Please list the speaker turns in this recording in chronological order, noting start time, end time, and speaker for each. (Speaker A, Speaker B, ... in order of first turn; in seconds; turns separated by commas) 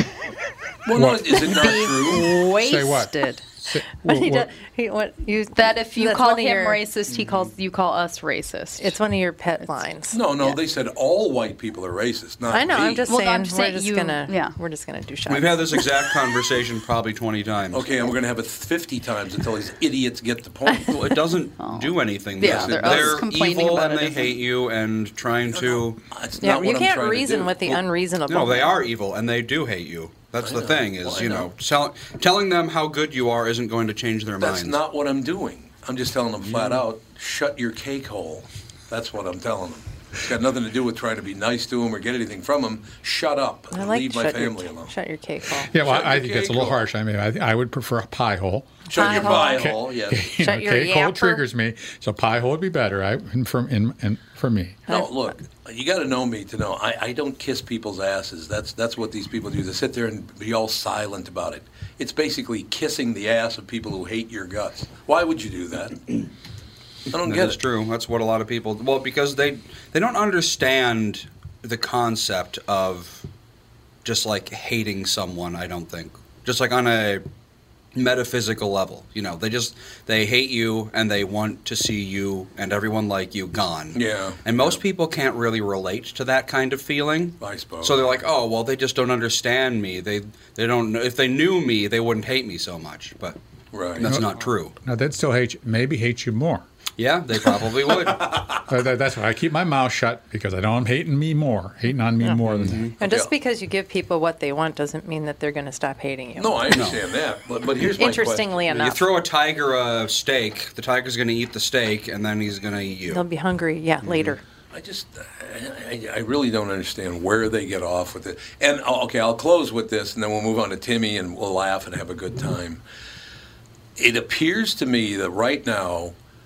Speaker A: 0.8-2.3, Speaker B: 0.9-1.2, Speaker C: 1.3-3.5, Speaker B: 2.6-4.5, Speaker C: 4.0-6.9, Speaker D: 5.5-9.0, Speaker C: 8.8-10.3, Speaker A: 10.1-13.1, Speaker C: 12.5-15.7, Speaker D: 13.1-14.6, Speaker E: 15.3-17.8, Speaker A: 17.7-20.9, Speaker E: 20.9-26.0, Speaker D: 21.5-24.4, Speaker A: 22.4-23.2, Speaker A: 25.5-27.8, Speaker C: 26.4-28.8, Speaker E: 28.3-34.8, Speaker A: 30.4-31.5, Speaker A: 34.4-44.9, Speaker E: 36.5-36.8, Speaker C: 43.7-45.7, Speaker A: 45.6-46.8, Speaker B: 45.7-54.8, Speaker A: 48.9-50.3, Speaker C: 48.9-49.7, Speaker C: 50.4-51.4, Speaker C: 54.9-55.2, Speaker A: 54.9-66.2, Speaker A: 67.1-67.6, Speaker E: 67.1-73.2, Speaker E: 74.0-77.2, Speaker E: 77.9-93.4, Speaker A: 83.9-84.8, Speaker A: 87.4-88.0, Speaker A: 93.7-94.1, Speaker E: 94.0-94.7, Speaker B: 94.0-96.7, Speaker E: 97.0-98.2, Speaker A: 98.1-98.6, Speaker B: 98.7-102.8, Speaker E: 102.5-103.0, Speaker A: 103.0-103.3, Speaker C: 103.0-106.7, Speaker A: 106.3-108.6, Speaker E: 106.7-107.0, Speaker C: 108.0-109.1, Speaker E: 108.7-113.2, Speaker C: 113.1-114.4, Speaker E: 114.0-114.4, Speaker A: 114.7-122.8, Speaker A: 124.0-126.1